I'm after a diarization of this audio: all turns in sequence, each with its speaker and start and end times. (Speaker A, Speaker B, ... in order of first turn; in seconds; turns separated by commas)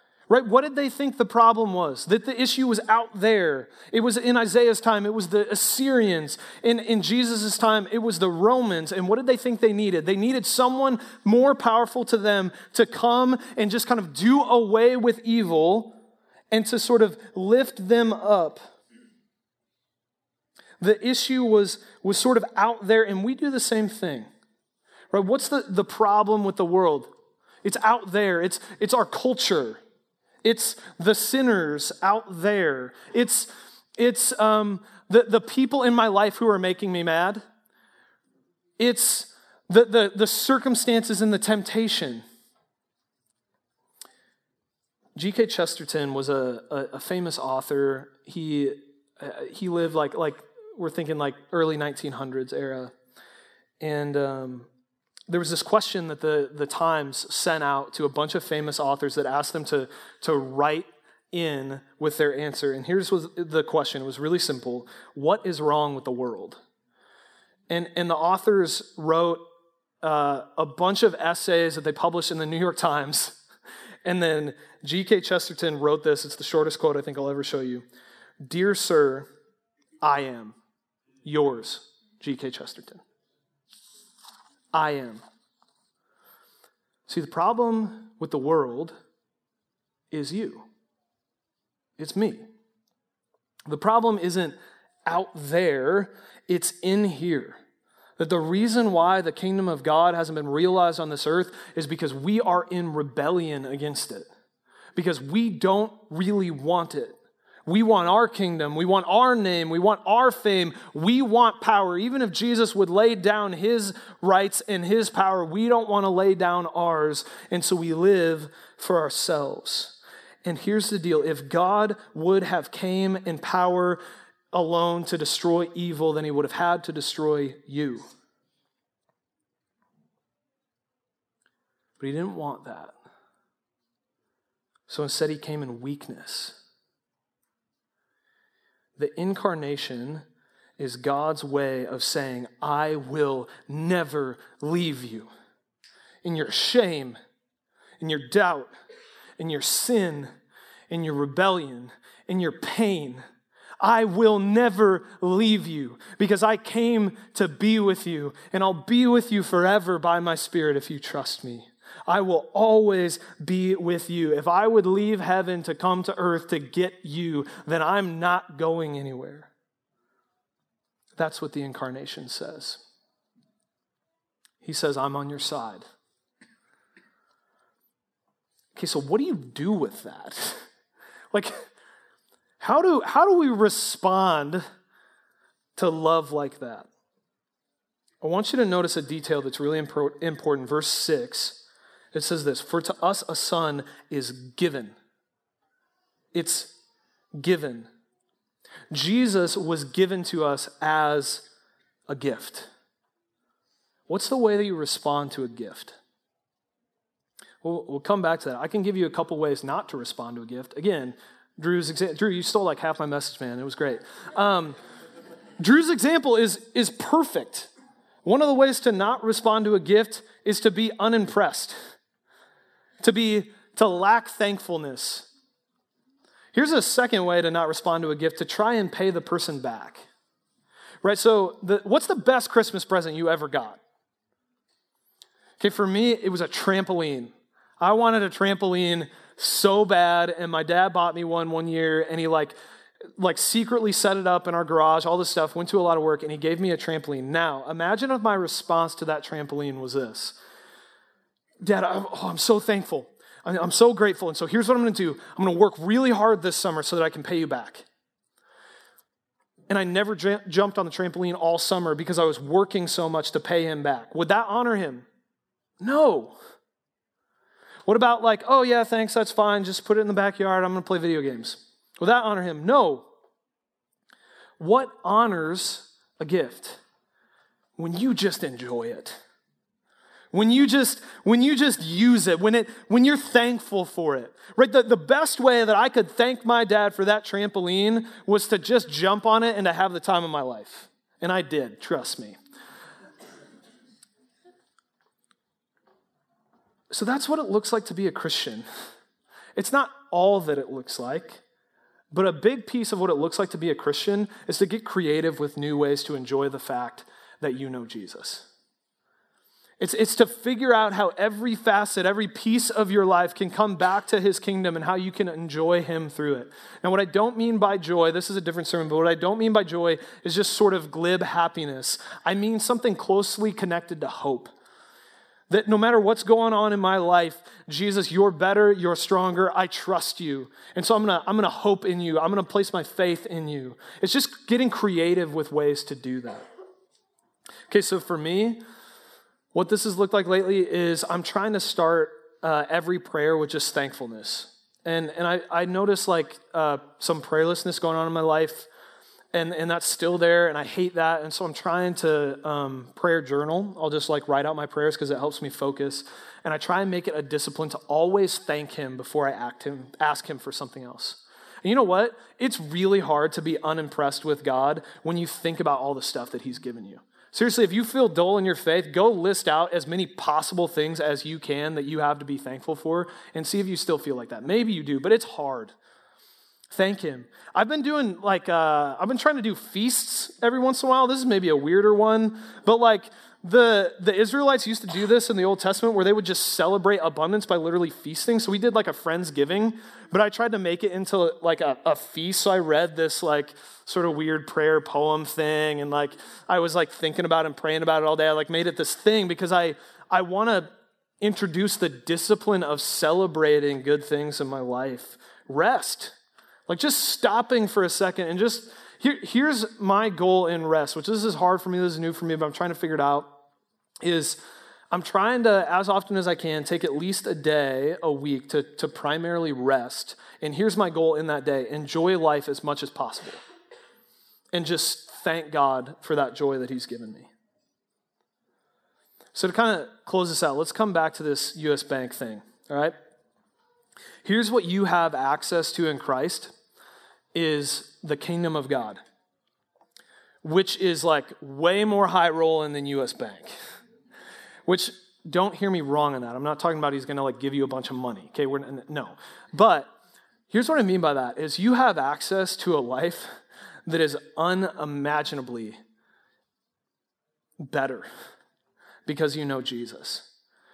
Speaker A: 0.3-16.0, Speaker A: 16.5-18.7, Speaker A: 20.8-24.3, Speaker A: 25.1-27.1, Speaker A: 27.6-29.8, Speaker A: 30.4-37.4, Speaker A: 38.8-42.2, Speaker A: 45.1-52.9, Speaker A: 53.8-54.7, Speaker A: 55.3-66.6, Speaker A: 67.7-69.4, Speaker A: 70.0-73.4, Speaker A: 74.0-77.8, Speaker A: 78.4-79.3, Speaker A: 80.0-80.5, Speaker A: 81.2-83.0, Speaker A: 84.7-85.2, Speaker A: 87.1-88.9, Speaker A: 90.1-90.7, Speaker A: 92.0-92.5, Speaker A: 93.7-94.5, Speaker A: 95.0-97.6, Speaker A: 98.2-104.3, Speaker A: 104.9-124.0, Speaker A: 124.5-128.1, Speaker A: 132.0-132.9, Speaker A: 134.9-136.6, Speaker A: 139.0-140.2, Speaker A: 140.8-145.3, Speaker A: 146.2-147.2, Speaker A: 148.0-148.7, Speaker A: 149.4-150.3, Speaker A: 150.9-153.2, Speaker A: 153.8-169.5, Speaker A: 171.2-172.8, Speaker A: 174.6-175.9, Speaker A: 178.7-180.7, Speaker A: 181.3-181.7, Speaker A: 182.6-184.6, Speaker A: 185.8-186.9, Speaker A: 188.2-194.9, Speaker A: 196.3-196.8, Speaker A: 197.4-197.9, Speaker A: 198.9-201.5, Speaker A: 202.1-202.7, Speaker A: 204.1-206.0, Speaker A: 207.6-214.8, Speaker A: 215.6-217.7, Speaker A: 218.2-221.8, Speaker A: 223.0-225.3, Speaker A: 226.5-230.1, Speaker A: 231.0-233.8, Speaker A: 235.6-242.5, Speaker A: 243.2-250.4, Speaker A: 251.6-257.9, Speaker A: 259.7-265.1, Speaker A: 265.8-266.4, Speaker A: 267.9-273.1, Speaker A: 274.6-276.8, Speaker A: 277.8-279.2, Speaker A: 280.3-292.4, Speaker A: 296.9-298.6, Speaker A: 299.6-301.4, Speaker A: 302.1-308.5, Speaker A: 309.8-324.5, Speaker A: 325.5-336.4, Speaker A: 337.7-338.6, Speaker A: 339.5-348.7, Speaker A: 349.3-375.7, Speaker A: 376.7-400.7, Speaker A: 401.2-406.1, Speaker A: 406.7-413.4, Speaker A: 414.0-423.4, Speaker A: 424.5-427.3, Speaker A: 429.3-432.9, Speaker A: 434.2-436.5, Speaker A: 437.3-439.0, Speaker A: 440.4-443.5, Speaker A: 444.6-449.9, Speaker A: 450.5-453.3, Speaker A: 453.9-455.8, Speaker A: 457.6-458.1, Speaker A: 459.1-460.3